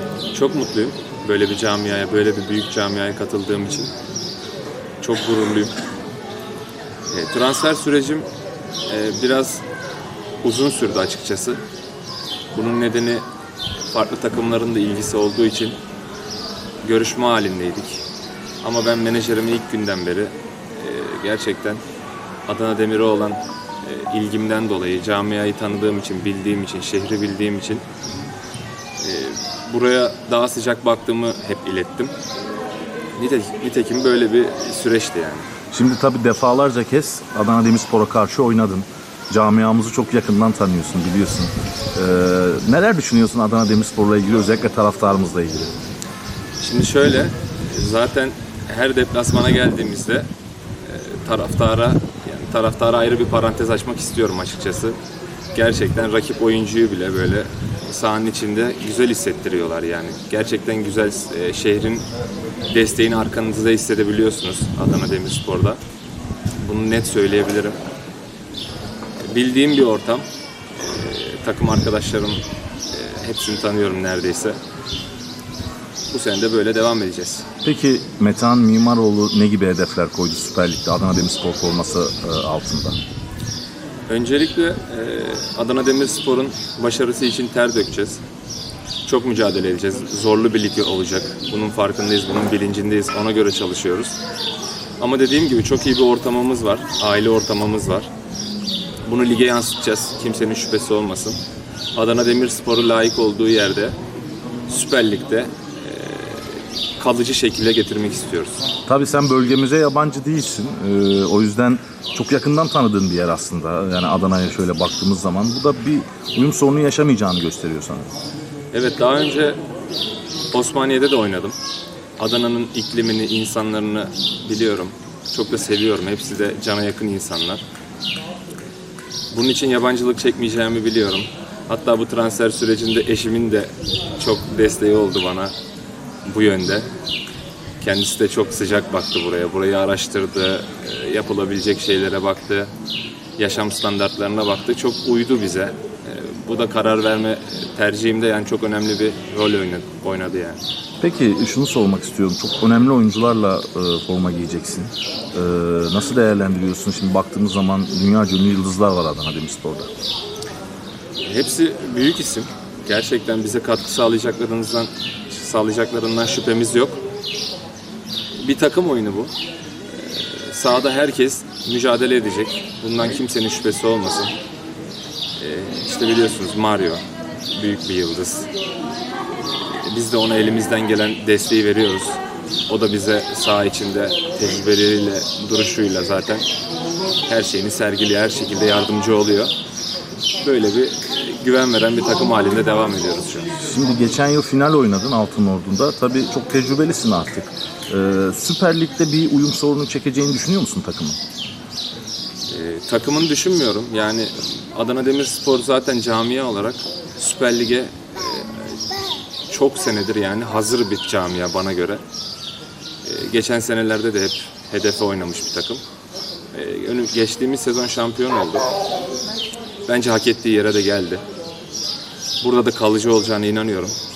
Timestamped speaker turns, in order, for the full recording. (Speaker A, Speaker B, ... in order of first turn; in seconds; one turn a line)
Speaker A: 0.3-3.9
Speaker A: 5.0-5.7
Speaker A: 7.1-8.3
Speaker A: 8.9-9.6
Speaker A: 10.4-11.6
Speaker A: 12.5-13.3
Speaker A: 13.9-15.8
Speaker A: 16.8-18.0
Speaker A: 18.6-21.8
Speaker A: 22.5-27.8
Speaker A: 29.0-32.1
Speaker A: 33.2-35.5
Speaker B: 35.7-45.7
Speaker A: 46.6-50.3
Speaker A: 50.8-55.0
Speaker A: 55.5-62.1
Speaker A: 62.7-65.8
Speaker A: 66.6-67.8
Speaker A: 69.3-70.2
Speaker A: 70.8-74.6
Speaker A: 76.1-77.5
Speaker B: 77.6-83.0
Speaker A: 84.1-88.2
Speaker A: 89.0-94.2
Speaker A: 95.0-98.1
Speaker A: 99.1-101.4
Speaker A: 102.0-104.0
Speaker A: 104.7-108.7
Speaker B: 108.9-118.1
Speaker A: 118.7-119.6
Speaker A: 120.5-121.6
Speaker A: 122.2-127.6
Speaker A: 129.3-135.5
Speaker A: 136.3-136.9
Speaker A: 137.8-142.7
Speaker A: 143.4-150.6
Speaker B: 151.0-159.9
Speaker A: 161.2-167.0
Speaker A: 168.4-169.3
Speaker A: 169.9-174.3
Speaker A: 175.4-178.5
Speaker A: 179.5-186.5
Speaker A: 187.3-189.5
Speaker A: 190.4-193.5
Speaker B: 193.6-201.2
Speaker A: 202.5-208.8
Speaker A: 209.5-212.0
Speaker A: 213.0-215.8
Speaker A: 216.5-218.7
Speaker A: 219.9-221.2
Speaker A: 222.4-224.0